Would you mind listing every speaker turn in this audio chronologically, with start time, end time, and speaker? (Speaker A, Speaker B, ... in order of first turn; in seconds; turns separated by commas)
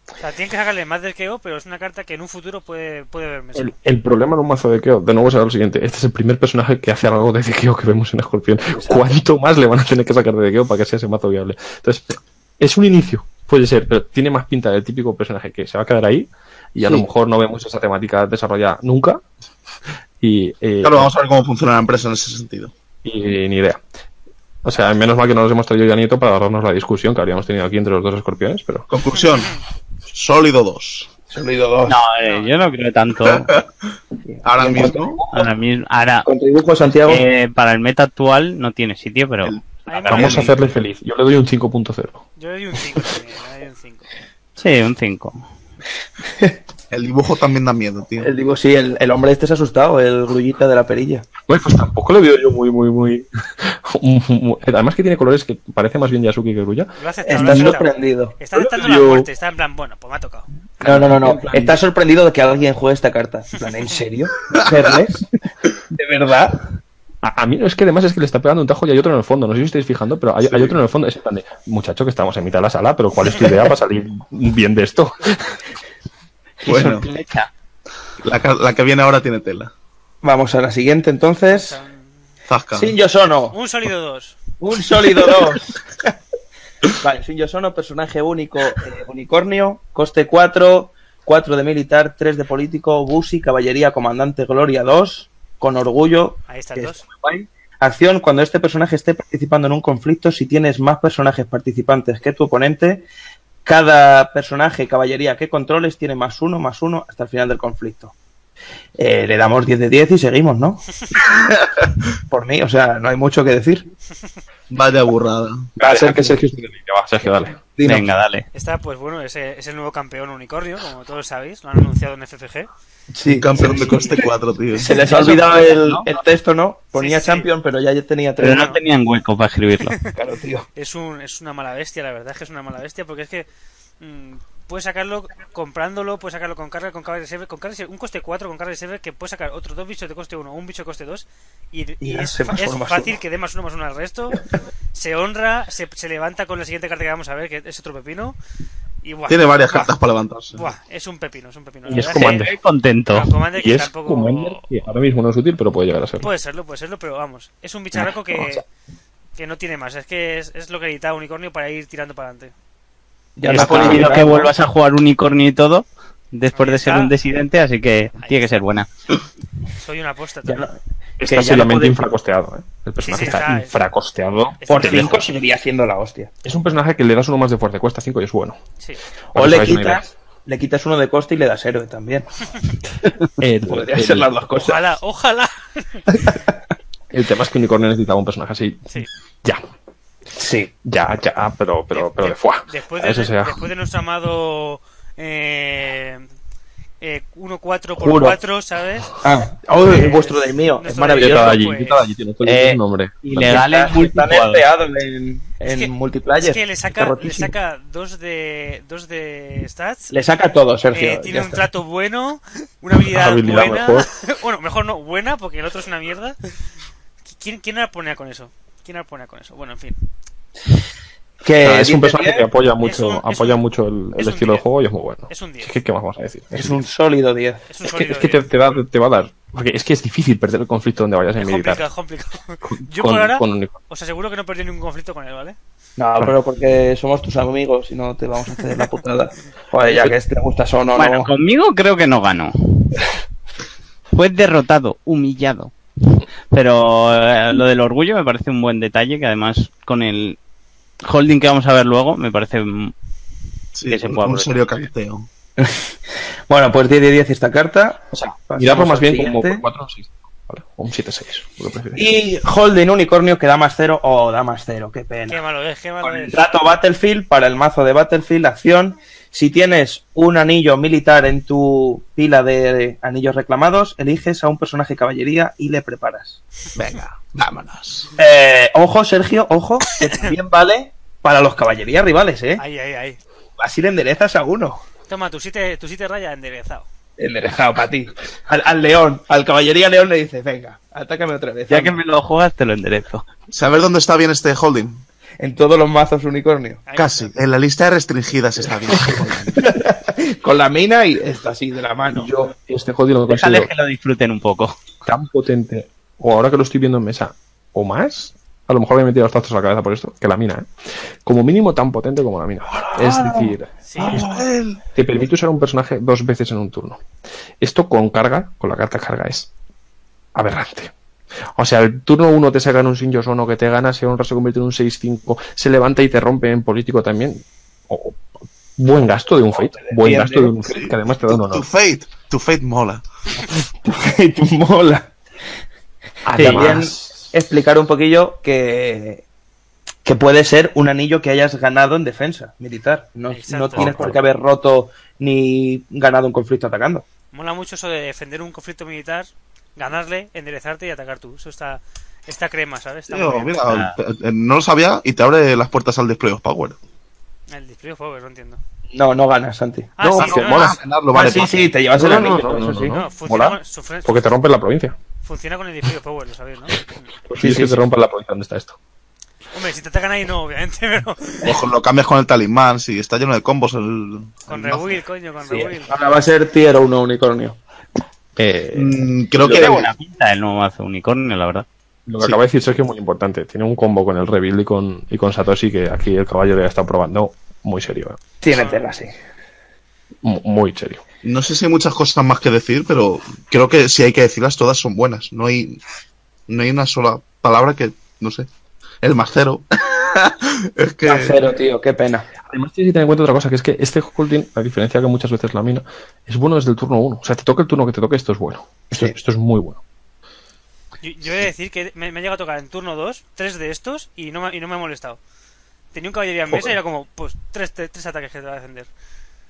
Speaker A: 0.2-3.7, Speaker B: 3.6-19.2, Speaker B: 20.2-21.1, Speaker C: 20.8-22.7, Speaker B: 23.0-23.8, Speaker B: 24.6-28.9, Speaker C: 28.9-31.1, Speaker D: 31.3-32.0, Speaker E: 31.9-33.5, Speaker A: 32.3-32.6, Speaker C: 33.2-33.6, Speaker D: 34.3-35.2, Speaker C: 34.4-35.2, Speaker E: 35.3-36.3, Speaker D: 36.3-37.2, Speaker E: 37.1-39.6, Speaker C: 39.4-40.5, Speaker A: 39.9-40.6, Speaker B: 40.1-42.2, Speaker A: 42.4-44.1, Speaker E: 44.6-45.4, Speaker C: 46.9-48.3, Speaker D: 48.2-51.3, Speaker B: 51.5-57.7, Speaker A: 57.0-60.5, Speaker D: 57.3-58.4, Speaker B: 58.8-59.2, Speaker B: 60.8-61.8, Speaker D: 60.8-65.3, Speaker C: 64.4-64.7, Speaker D: 65.9-66.7, Speaker B: 67.2-75.6, Speaker C: 70.5-70.8, Speaker C: 76.7-77.1, Speaker E: 76.7-77.5, Speaker C: 78.2-79.7, Speaker D: 80.2-81.8, Speaker A: 81.5-82.1, Speaker C: 82.5-83.0, Speaker D: 82.8-83.6, Speaker A: 83.5-84.4, Speaker D: 84.6-86.1, Speaker D: 87.0-103.1, Speaker A: 96.5-97.0, Speaker D: 103.7-108.1, Speaker D: 109.0-110.8, Speaker D: 112.3-113.9, Speaker C: 114.7-115.7, Speaker B: 115.8-117.6, Speaker D: 115.8-116.4, Speaker D: 117.6-118.1, Speaker E: 117.8-118.5, Speaker A: 118.5-122.7, Speaker D: 123.2-124.2, Speaker C: 123.3-125.3, Speaker A: 123.6-124.2, Speaker D: 124.8-128.8, Speaker E: 125.1-126.1, Speaker A: 127.0-127.5, Speaker E: 128.4-130.0, Speaker A: 128.5-128.8, Speaker D: 130.2-130.7, Speaker A: 130.8-133.5, Speaker A: 134.0-148.4, Speaker D: 142.0-143.2, Speaker A: 149.0-149.9, Speaker C: 149.3-150.7, Speaker A: 150.6-152.4, Speaker B: 151.9-152.5, Speaker E: 151.9-153.3, Speaker A: 153.1-154.6, Speaker B: 153.5-156.3, Speaker A: 156.2-158.7, Speaker B: 157.9-158.6, Speaker A: 159.3-162.5, Speaker D: 163.4-164.5, Speaker B: 163.5-164.5, Speaker E: 163.5-168.9, Speaker A: 166.5-167.1, Speaker A: 168.2-168.6, Speaker A: 169.8-170.7, Speaker D: 170.4-170.7, Speaker B: 171.2-175.3, Speaker D: 171.2-172.0, Speaker A: 173.0-173.8, Speaker A: 174.6-175.3, Speaker D: 174.7-176.3, Speaker B: 176.4-178.6, Speaker B: 179.3-180.0, Speaker D: 179.3-182.3, Speaker B: 183.4-184.3, Speaker D: 183.7-185.0, Speaker A: 184.6-186.0, Speaker B: 187.1-188.8, Speaker D: 190.4-190.7, Speaker B: 190.8-193.7, Speaker A: 191.9-196.2, Speaker A: 197.0-199.2, Speaker D: 198.0-198.4, Speaker D: 199.2-201.6, Speaker A: 199.8-202.1, Speaker B: 201.2-203.6, Speaker E: 202.4-204.7, Speaker D: 203.4-207.5, Speaker A: 205.7-210.1, Speaker D: 210.1-211.7, Speaker A: 210.9-216.5, Speaker B: 213.1-214.1, Speaker A: 217.3-220.0, Speaker D: 221.4-222.4, Speaker B: 221.6-226.9, Speaker A: 222.8-223.6, Speaker A: 224.2-224.7, Speaker A: 225.3-225.7, Speaker D: 226.6-227.7, Speaker A: 227.7-228.4, Speaker B: 227.8-231.9, Speaker A: 231.4-235.6, Speaker B: 232.6-233.8, Speaker D: 236.0-241.3, Speaker E: 240.9-243.0, Speaker E: 244.1-250.4, Speaker E: 251.0-252.9, Speaker C: 253.8-255.3, Speaker E: 253.9-254.6, Speaker D: 255.6-255.9, Speaker D: 256.5-259.6, Speaker B: 258.1-262.0, Speaker D: 261.9-265.4, Speaker A: 265.3-266.4, Speaker D: 266.0-276.4, Speaker C: 276.8-278.1, Speaker D: 278.2-282.6, Speaker A: 280.0-280.4, Speaker A: 282.6-283.2, Speaker D: 283.6-284.8, Speaker A: 285.1-286.9, Speaker D: 287.2-292.0, Speaker E: 291.7-293.3, Speaker C: 293.5-295.0, Speaker D: 295.4-296.8, Speaker A: 296.9-297.4, Speaker C: 296.9-299.6, Speaker D: 299.6-302.3, Speaker B: 302.1-303.7, Speaker E: 303.3-304.8, Speaker B: 305.1-310.7, Speaker B: 311.2-314.4, Speaker D: 313.0-313.5, Speaker A: 313.9-314.2, Speaker C: 314.0-314.8, Speaker B: 314.9-317.0, Speaker B: 317.6-319.5, Speaker B: 320.4-320.9, Speaker B: 321.6-328.2, Speaker B: 328.8-331.7, Speaker D: 329.8-330.6, Speaker C: 330.6-333.0, Speaker D: 333.8-335.1, Speaker B: 336.2-337.3, Speaker E: 336.4-336.7, Speaker D: 336.4-339.2, Speaker D: 340.1-347.1, Speaker A: 343.3-343.9, Speaker B: 343.8-344.2, Speaker A: 347.3-353.6, Speaker C: 353.1-356.8, Speaker E: 353.7-354.0, Speaker A: 357.5-358.6, Speaker D: 358.9-359.9, Speaker A: 360.0-360.8, Speaker B: 360.0-360.8, Speaker C: 360.2-361.7, Speaker D: 361.1-362.9, Speaker B: 361.9-365.0, Speaker A: 362.9-364.3, Speaker A: 365.2-367.1, Speaker B: 367.3-368.8, Speaker D: 367.4-367.8, Speaker A: 369.5-371.6, Speaker C: 371.4-375.0, Speaker A: 374.5-375.9, Speaker D: 375.5-377.6, Speaker B: 378.4-379.7, Speaker C: 378.8-379.9, Speaker E: 379.4-381.7, Speaker D: 379.5-379.8, Speaker B: 382.1-388.2, Speaker D: 388.4-389.1, Speaker A: 388.5-388.9, Speaker B: 390.2-391.0, Speaker C: 391.2-395.8, Speaker C: 396.5-398.5, Speaker C: 399.0-401.4, Speaker D: 401.1-402.3, Speaker B: 402.5-409.8, Speaker A: 411.0-415.2, Speaker A: 415.9-418.9